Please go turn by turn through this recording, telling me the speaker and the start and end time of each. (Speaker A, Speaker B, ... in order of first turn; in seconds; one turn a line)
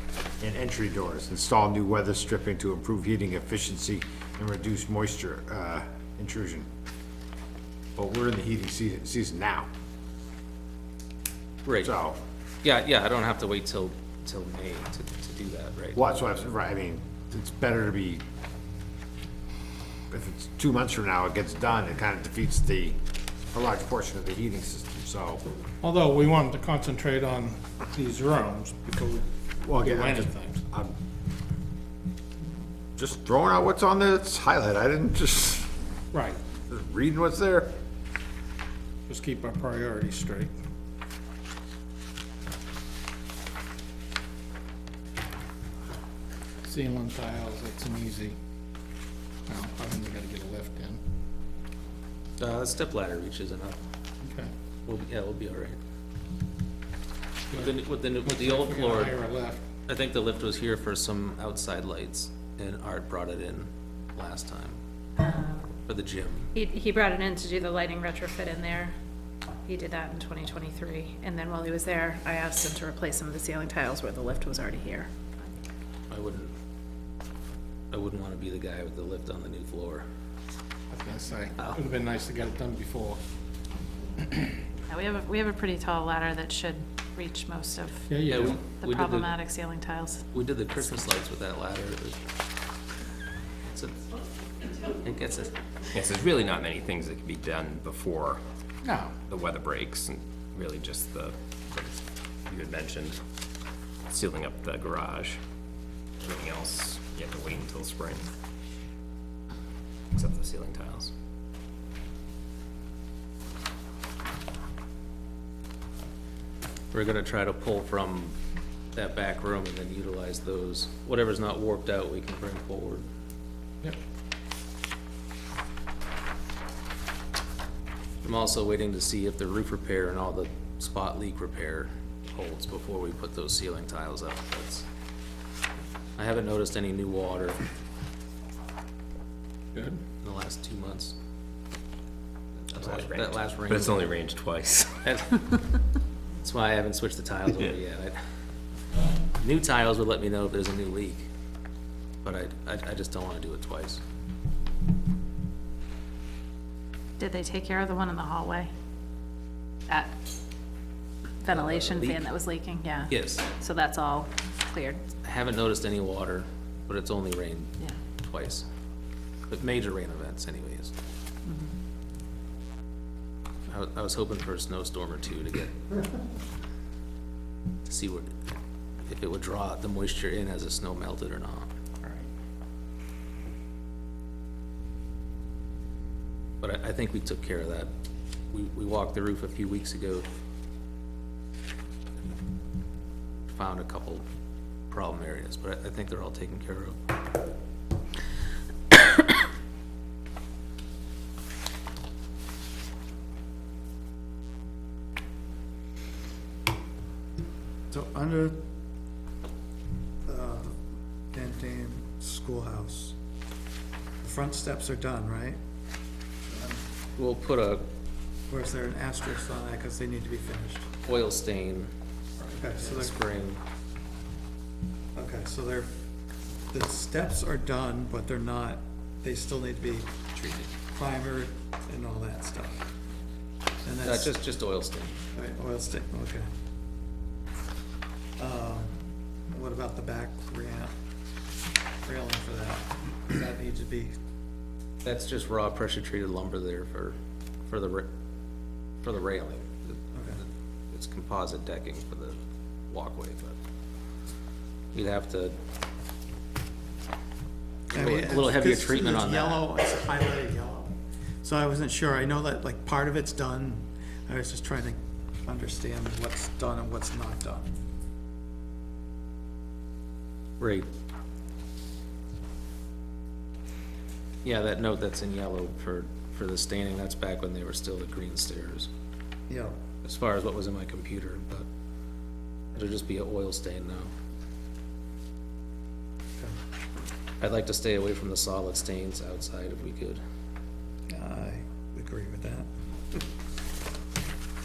Speaker A: 0.4-6.7
Speaker A: 8.0-9.7
Speaker B: 11.7-11.9
Speaker A: 11.8-12.2
Speaker B: 12.6-16.2
Speaker A: 15.9-18.2
Speaker A: 20.1-23.0
Speaker A: 23.5-25.4
Speaker C: 25.8-29.2
Speaker A: 29.6-30.9
Speaker C: 29.8-30.6
Speaker A: 33.0-35.7
Speaker C: 36.1-36.4
Speaker A: 36.7-37.7
Speaker C: 39.1-40.5
Speaker C: 46.6-48.4
Speaker C: 49.5-51.0
Speaker B: 52.4-53.8
Speaker C: 54.2-54.5
Speaker B: 54.9-55.8
Speaker B: 57.5-59.2
Speaker C: 57.5-59.6
Speaker B: 59.9-64.8
Speaker B: 65.9-66.5
Speaker D: 66.5-68.9
Speaker D: 69.7-75.1
Speaker B: 76.1-76.5
Speaker B: 77.9-80.0
Speaker C: 80.9-83.2
Speaker C: 84.2-84.5
Speaker D: 84.9-88.0
Speaker C: 88.1-88.6
Speaker B: 88.3-89.4
Speaker D: 88.7-90.2
Speaker B: 90.3-92.2
Speaker B: 95.0-95.5
Speaker E: 95.9-98.4
Speaker C: 98.8-99.2
Speaker E: 99.3-103.2
Speaker E: 104.1-105.4
Speaker E: 106.2-108.3
Speaker E: 110.1-111.1
Speaker B: 116.9-118.3
Speaker B: 118.9-123.1
Speaker B: 128.2-134.9
Speaker B: 136.2-137.6
Speaker C: 139.8-140.0
Speaker B: 140.2-141.2
Speaker B: 142.7-144.1
Speaker E: 142.8-145.0
Speaker B: 145.0-145.6
Speaker B: 146.4-148.2
Speaker B: 149.4-151.3
Speaker B: 152.2-154.0
Speaker D: 157.2-158.7
Speaker D: 161.4-165.0
Speaker B: 161.5-162.2
Speaker B: 163.1-163.4
Speaker B: 165.2-168.7
Speaker B: 169.5-170.9
Speaker D: 171.5-171.7
Speaker B: 173.7-175.8
Speaker B: 177.9-178.3
Speaker B: 179.1-181.7
Speaker B: 186.6-187.9
Speaker B: 188.5-190.3
Speaker B: 193.5-194.3
Speaker B: 194.9-197.0
Speaker F: 207.9-208.6
Speaker F: 210.3-210.7
Speaker F: 211.3-213.2
Speaker F: 214.2-215.6
Speaker F: 216.5-216.8
Speaker B: 217.2-217.8
Speaker F: 218.5-220.9
Speaker B: 221.0-221.9
Speaker F: 222.5-223.2
Speaker B: 222.8-223.6
Speaker F: 225.2-225.9
Speaker F: 226.7-230.2
Speaker B: 230.3-230.7
Speaker F: 230.9-232.9
Speaker F: 233.8-234.4
Speaker B: 234.0-235.2
Speaker F: 235.3-236.5
Speaker F: 238.4-239.0
Speaker F: 239.5-240.9
Speaker F: 242.1-244.1
Speaker B: 245.0-247.2
Speaker B: 247.7-248.1
Speaker B: 249.0-252.4
Speaker F: 250.1-250.4
Speaker B: 252.9-253.6
Speaker B: 254.9-255.6
Speaker F: 257.9-267.7
Speaker B: 257.9-259.6
Speaker B: 270.6-270.9
Speaker B: 274.4-278.9
Speaker F: 279.5-279.7
Speaker B: 280.0-281.7
Speaker B: 282.8-284.1
Speaker B: 287.4-290.2
Speaker F: 291.1-292.7